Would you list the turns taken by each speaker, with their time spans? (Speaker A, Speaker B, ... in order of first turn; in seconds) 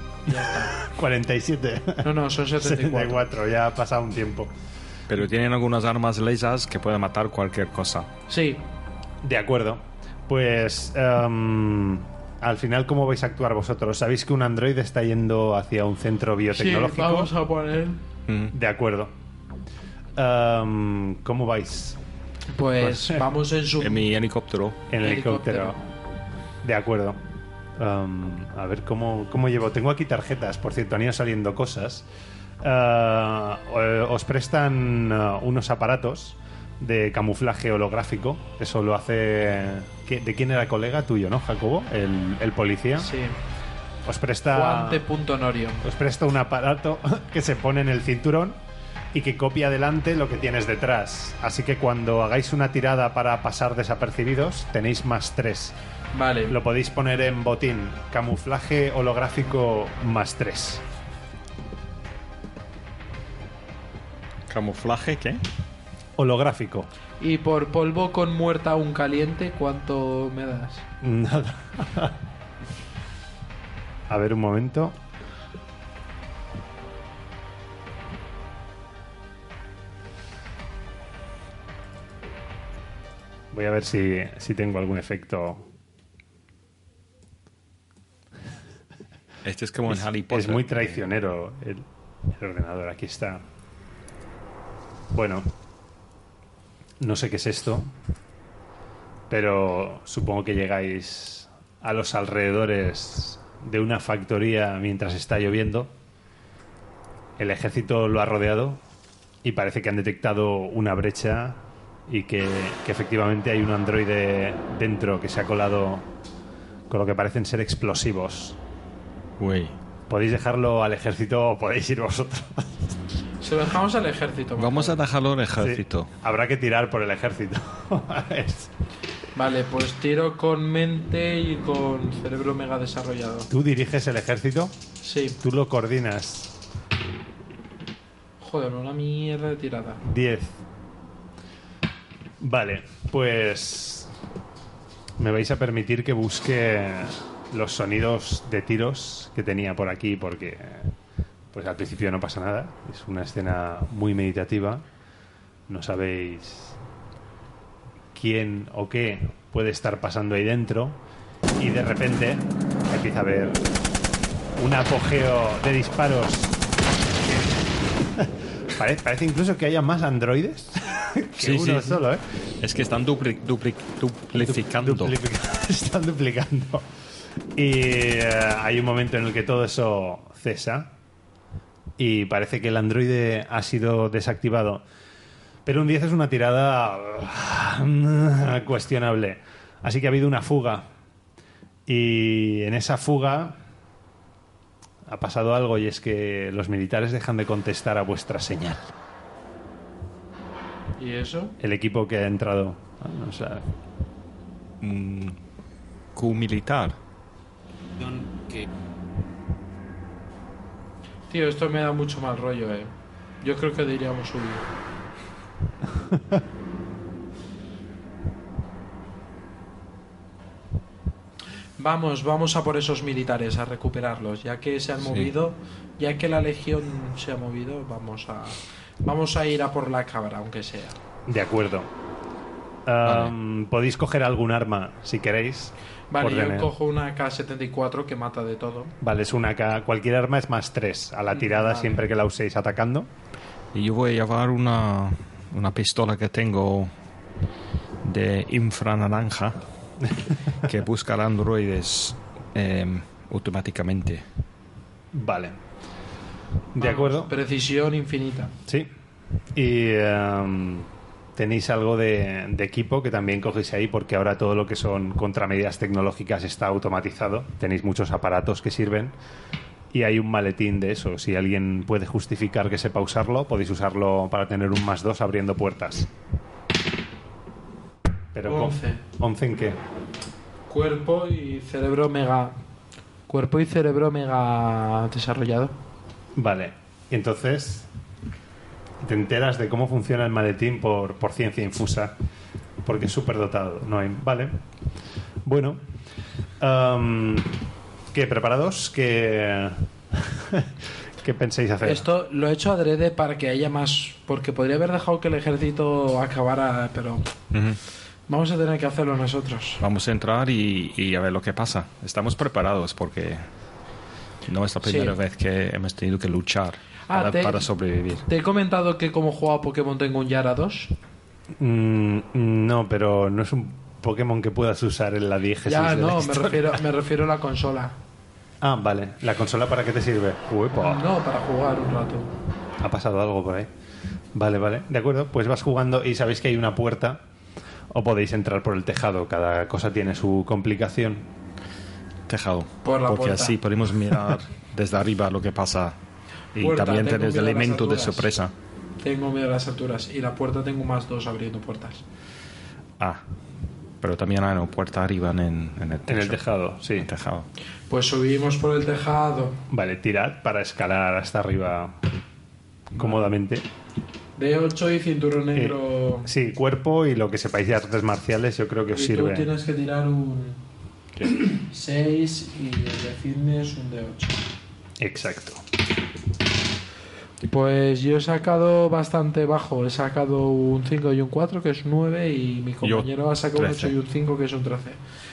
Speaker A: 0.2-0.7, 2.0-3.2, 8.3-8.6, 16.5-18.0, 22.5-24.1, 25.0-25.9, 43.0-43.4, 44.5-45.8, 56.1-56.5, 67.2-70.8, 123.4-125.0, 129.3-133.5, 135.0-135.4, 138.4-140.0, 201.0-201.6, 211.3-214.7, 221.8-230.9, 236.1-238.9, 241.4-242.0, 256.8-258.5, 278.4-279.0, 280.7-282.6, 283.3-285.7, 301.8-307.3, 308.3-309.8, 314.8-315.1, 317.1-317.6, 318.3-320.9, 325.6-328.0, 330.8-332.3, 342.8-343.6, 346.6-348.3, 349.0-352.0, 357.9-359.6, 363.0-363.3, 364.4-366.3, 368.9-370.6, 371.3-374.4, 377.4-385.0
Speaker B: 0.7-4.5, 9.2-17.3, 18.5-19.1, 20.1-22.0, 22.8-23.2, 24.9-25.8, 26.6-27.2, 27.8-32.0, 32.6-43.1, 44.0-45.0, 45.8-48.6, 49.1-55.8, 56.5-60.8, 66.2-66.9, 71.0-72.2, 74.1-75.0, 83.5-85.7, 89.9-93.4, 95.1-95.5, 97.0-97.9, 99.3-105.9, 107.4-108.8, 109.4-116.1, 116.9-118.6, 120.1-122.9, 125.6-128.7, 133.5-134.7, 135.4-136.5, 140.0-140.6, 142.4-144.1, 145.2-150.9, 151.5-154.8, 155.7-156.8, 158.1-161.0, 161.6-163.6, 164.6-166.6, 167.2-172.2, 174.3-176.9, 177.5-180.9, 182.0-184.8, 185.7-190.9, 191.9-193.6, 195.1-198.9, 201.6-203.7, 216.1-216.4, 231.3-231.9, 232.8-236.7, 239.0-243.1, 255.1-255.6, 256.7-257.3, 259.5-269.1, 269.9-276.1, 278.3-279.8, 286.4-287.9, 289.0-292.1, 292.8-294.5, 295.4-295.8, 296.6-297.6, 298.1-302.0, 321.6-326.8, 328.6-331.0, 332.8-333.7, 334.3-337.2, 337.9-341.3, 356.1-357.1, 359.7-362.0, 362.9-363.7, 365.5-369.5, 375.0-375.6
Speaker C: 5.1-8.1, 18.3-18.5, 23.8-24.8, 64.5-65.4, 89.4-91.0, 119.4-119.7, 124.6-126.1, 171.4-172.0, 172.6-175.1, 204.8-205.4, 206.1-207.0, 225.0-225.3, 233.0-233.3, 243.7-246.9, 248.0-249.6, 250.6-254.2, 307.5-307.8, 309.8-313.5, 314.4-318.2, 342.3-345.9, 346.6-348.5, 354.0-357.5, 382.8-383.9